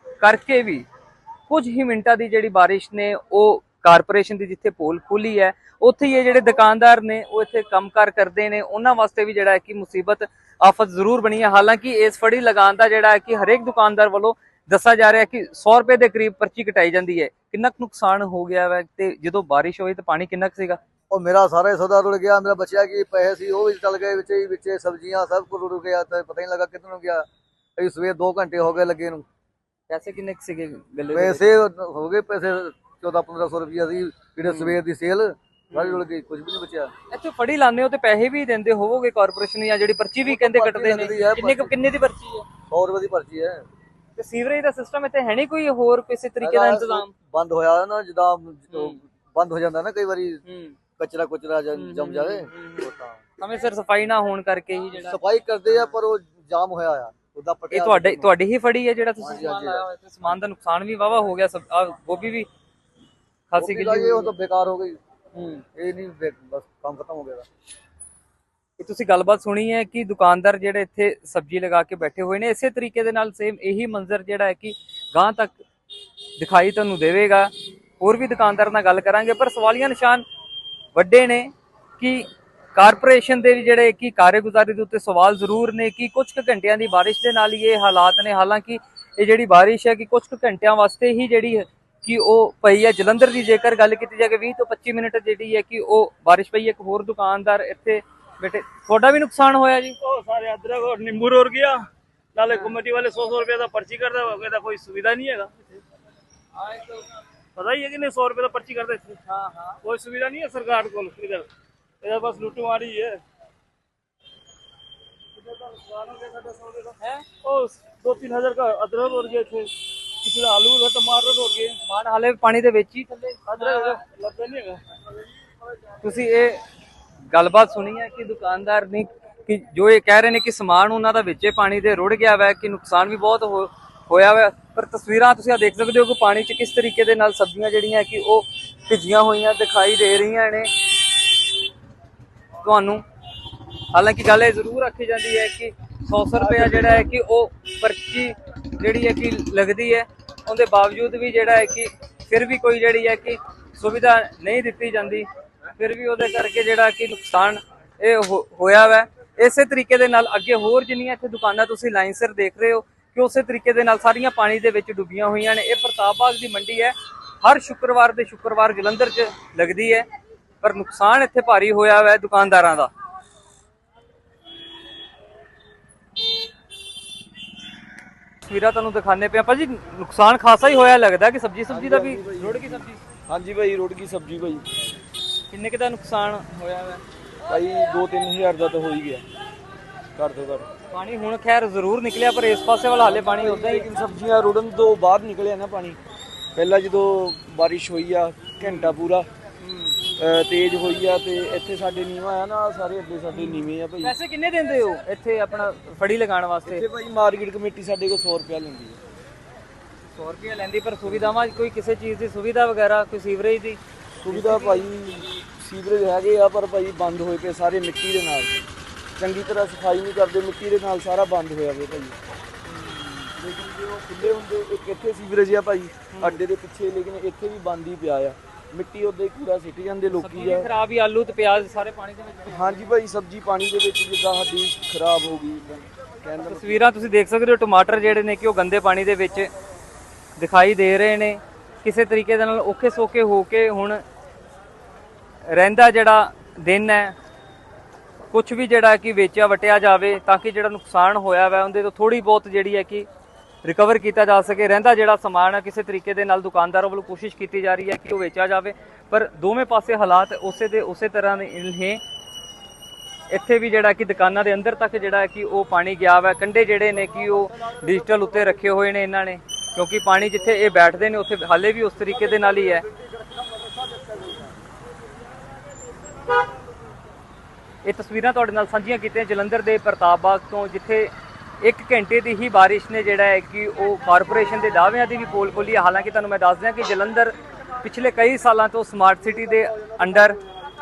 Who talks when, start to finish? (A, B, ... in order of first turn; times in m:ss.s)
0:00.2-0:00.9 A
0:01.5-0:20.8 A
0:21.1-0:27.3 B
0:27.8-0:29.2 B
0:29.9-0:31.4 A
0:31.1-0:36.9 B
0:34.4-0:34.8 A
0:35.7-0:36.0 A
0:37.1-0:42.5 A
0:40.2-0:41.8 B
0:42.7-0:43.6 B
0:44.2-0:47.1 A
0:46.4-0:50.4 B
0:48.7-0:49.0 A
0:50.4-0:50.8 A
0:51.0-0:53.2 B
0:51.7-0:55.2 A
0:55.0-0:58.3 B
0:55.7-0:56.0 A
0:57.7-1:02.5 A
0:59.2-0:59.8 B
1:03.5-1:04.3 A
1:03.6-1:05.0 B
1:05.6-1:07.4 B
1:08.8-1:15.6 A
1:16.4-1:20.2 A
1:20.9-1:40.0 A
1:40.0-1:45.7 C
1:46.7-1:46.9 C
1:47.6-1:49.2 C
1:49.2-1:49.8 A
1:49.8-1:51.5 C
1:52.0-1:53.2 C
1:55.4-2:01.8 C
1:57.0-1:57.3 A
2:01.7-2:04.0 A
2:03.5-2:04.9 C
2:06.0-2:06.6 A
2:07.3-2:21.2 A
2:22.6-2:23.0 A
2:23.9-2:50.1 A
2:26.4-2:27.0 D
2:50.6-2:52.9 A
2:58.4-3:03.0 A
3:01.7-3:04.8 D
3:05.5-3:07.0 A
3:07.5-3:09.2 D
3:10.2-3:10.7 D
3:10.9-3:13.9 A
3:13.0-3:16.0 D
3:16.6-3:19.3 D
3:18.6-3:19.0 A
3:19.6-3:20.0 A
3:20.2-3:24.2 D
3:23.3-3:26.9 A
3:26.7-3:29.0 D
3:30.1-3:34.9 A
3:34.2-3:38.6 D
3:39.2-3:42.2 D
3:42.7-3:43.3 A
3:43.4-3:50.7 D
3:46.1-3:46.4 A
3:50.1-3:52.8 A
3:52.5-3:56.8 D
3:56.4-3:59.5 A
4:00.4-4:04.0 A
4:05.4-4:07.2 A
4:08.3-4:13.1 A
4:13.6-4:22.0 A
4:23.3-4:32.8 A
4:37.8-4:50.4 A